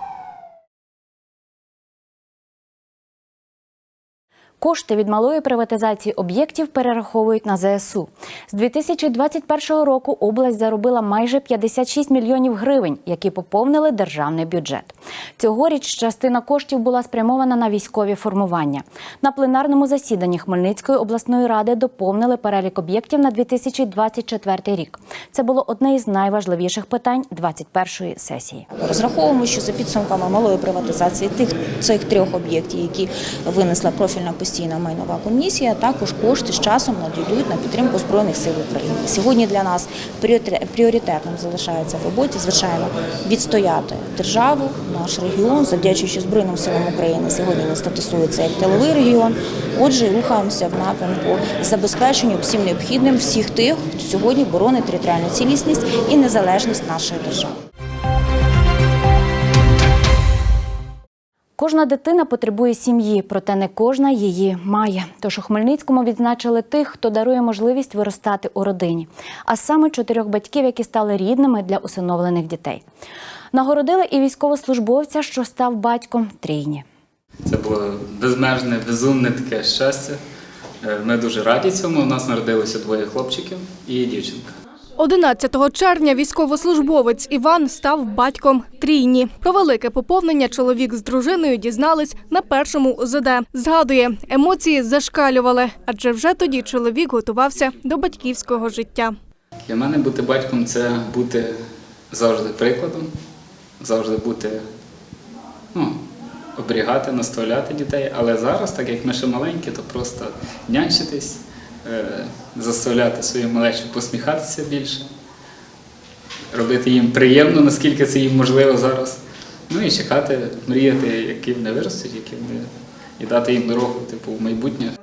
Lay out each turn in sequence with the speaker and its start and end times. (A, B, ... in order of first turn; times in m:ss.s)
0:04.6-0:28.7 A
0:28.7-0:57.5 B
1:01.6-1:12.8 A
1:13.5-1:16.8 A
1:17.5-1:20.2 C
1:20.8-1:24.5 C
1:25.0-1:39.2 D
1:39.7-1:41.6 C
1:42.1-1:43.1 C
1:43.8-1:44.6 C
1:46.6-1:55.1 C
1:56.5-1:59.2 C
1:59.7-2:02.7 C
2:03.2-2:04.9 C